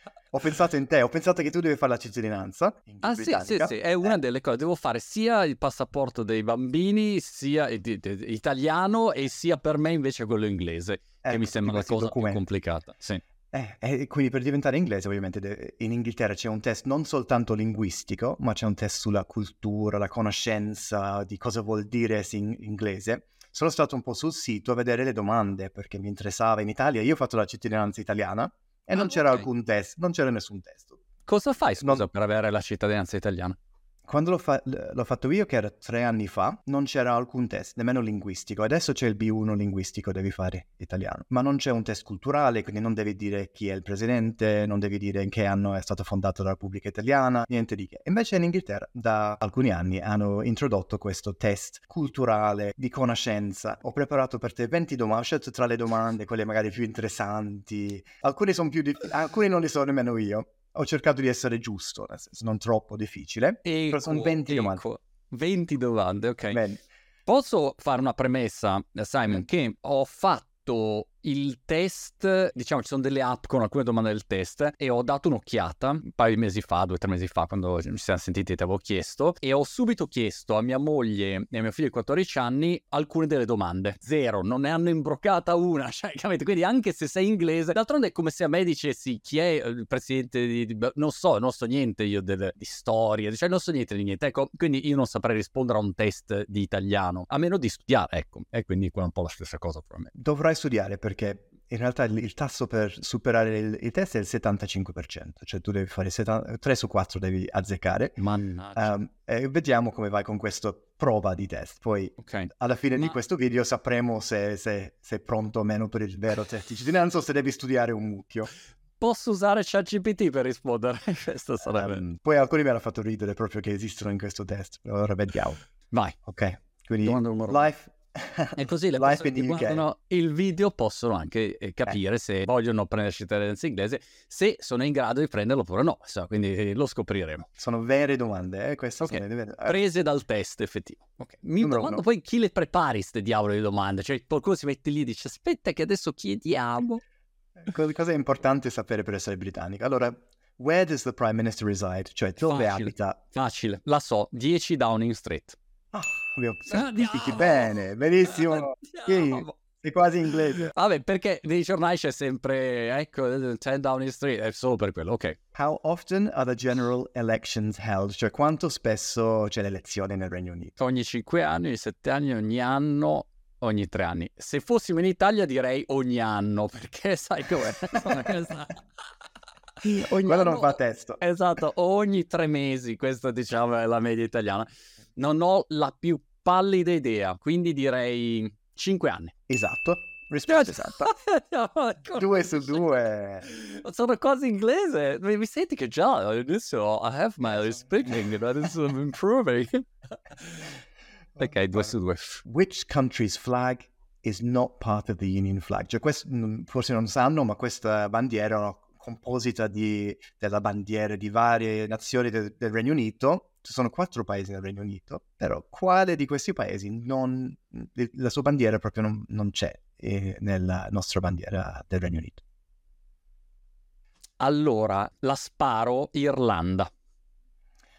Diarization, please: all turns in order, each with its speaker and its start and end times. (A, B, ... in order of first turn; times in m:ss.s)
0:00.3-0:04.2 A
0:03.0-0:13.2 B
0:11.2-0:12.4 A
0:13.5-0:31.0 A
0:29.0-0:29.4 B
0:31.3-0:33.6 B
0:34.1-1:04.8 A
1:03.6-1:06.6 B
1:06.5-1:06.8 A
1:07.3-1:40.1 B
1:40.2-1:48.2 A
1:48.2-1:49.0 B
1:48.8-1:58.5 A
1:52.2-1:53.1 B
1:59.0-2:02.0 B
2:01.7-2:05.6 A
2:06.2-2:09.8 A
2:07.0-2:07.7 B
2:08.6-2:17.5 B
2:17.6-2:19.8 A
2:19.0-2:27.0 B
2:21.6-2:22.0 A
2:27.6-2:33.2 A
2:32.4-2:35.6 B
2:35.9-2:40.6 A
2:36.7-2:39.5 B
2:40.6-2:45.4 B
2:45.5-2:50.8 A
2:50.8-2:58.8 B
2:59.8-3:09.3 B
3:00.0-3:01.2 A
3:09.5-3:11.1 A
3:10.5-3:12.6 B
3:12.2-3:13.5 A
3:13.4-3:20.7 B
3:21.4-3:21.9 A
3:21.4-3:22.4 B
3:22.4-3:42.4 A
3:44.4-3:46.9 B